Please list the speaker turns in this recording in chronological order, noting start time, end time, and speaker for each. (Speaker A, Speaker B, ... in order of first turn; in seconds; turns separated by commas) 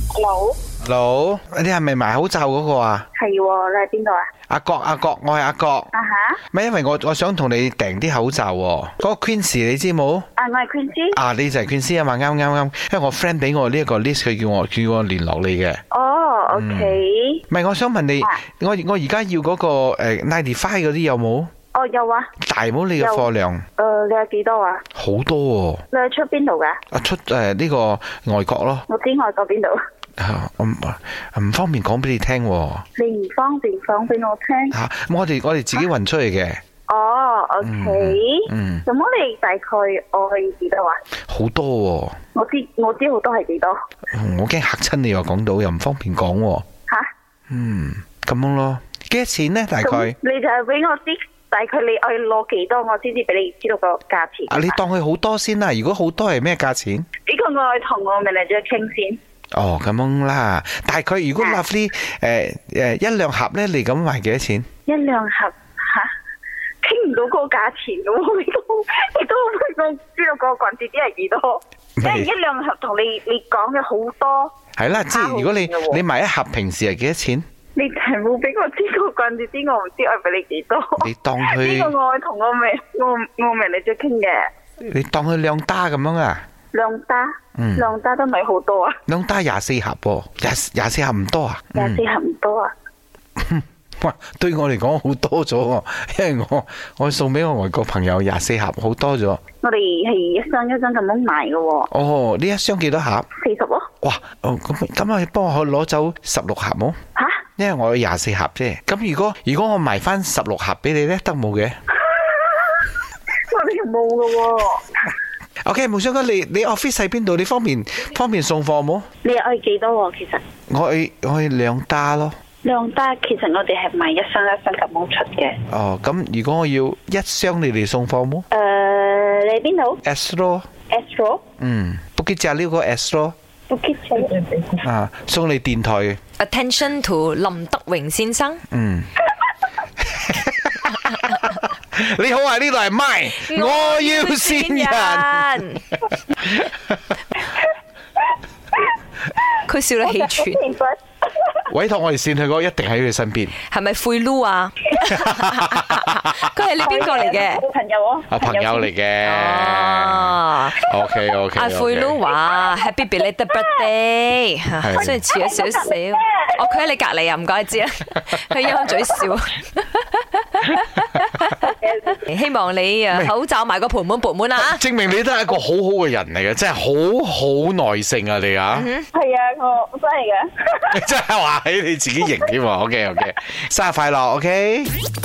Speaker A: 0.1-0.6, Speaker B: 0.8-3.0, Speaker A: 3.1-4.3, Speaker B: 4.5-5.9, Speaker A: 5.9-6.4, Speaker B: 6.5-10.3, Speaker A: 10.4-11.2, Speaker B: 11.1-15.8, Speaker A: 15.9-17.4, Speaker B: 16.5-21.5, Speaker A: 21.7-22.3, Speaker B: 22.4-23.7, Speaker A: 23.0-24.8, Speaker B: 24.9-25.8, Speaker A: 25.9-26.8, Speaker B: 26.9-28.9, Speaker A: 28.9-29.8, Speaker B: 30.2-32.8, Speaker A: 33.0-34.8, Speaker B: 34.7-36.6, Speaker A: 36.9-41.0, Speaker B: 37.6-38.8, Speaker B: 41.3-42.2, Speaker A: 42.3-43.8, Speaker B: 44.1-46.6, Speaker B: 47.5-50.2, Speaker A: 49.8-54.7, Speaker B: 54.5-57.1, Speaker A: 57.3-59.2, Speaker B: 59.5-64.7, Speaker A: 64.8-66.1, Speaker A: 66.8-74.5, Speaker B: 72.0-72.3, Speaker B: 74.8-77.4, Speaker A: 75.1-76.0, Speaker A: 77.8-84.5, Speaker B: 81.0-81.9, Speaker B: 84.8-86.4, Speaker A: 86.7-89.0, Speaker B: 87.5-87.9, Speaker B: 89.1-92.0, Speaker A: 91.7-92.7, Speaker B: 93.4-99.4, Speaker A: 99.6-101.9, Speaker B: 101.9-103.3, Speaker A: 103.4-103.9, Speaker B: 104.0-107.0, Speaker A: 107.2-107.4, Speaker B: 107.6-111.8, Speaker A: 112.0-112.9, Speaker A: 113.5-115.1, Speaker B: 115.6-119.0, Speaker A: 119.2-120.4, Speaker B: 120.7-122.3, Speaker A: 122.6-125.6, Speaker B: 125.7-128.5, Speaker A: 128.5-130.0, Speaker B: 130.0-130.7, Speaker A: 130.9-131.4, Speaker B: 131.6-133.3, Speaker A: 133.7-134.8, Speaker B: 134.8-136.2, Speaker C: 136.4-138.6, Speaker B: 138.7-139.1, Speaker B: 140.0-145.8, Speaker C: 143.4-145.8, Speaker B: 146.4-147.0, Speaker A: 149.3-151.6, Speaker C: 149.7-150.6, Speaker B: 151.7-153.6, Speaker C: 153.6-157.6, Speaker B: 155.1-156.4, Speaker A: 156.8-158.9, Speaker B: 158.3-162.2, Speaker C: 159.2-160.9, Speaker C: 161.6-174.8, Speaker B: 164.8-165.2, Speaker A: 165.1-166.5, Speaker A: 171.8-172.2, Speaker B: 174.6-178.9, Speaker C: 178.7-179.1, Speaker A: 179.1-181.0, Speaker B: 180.9-184.9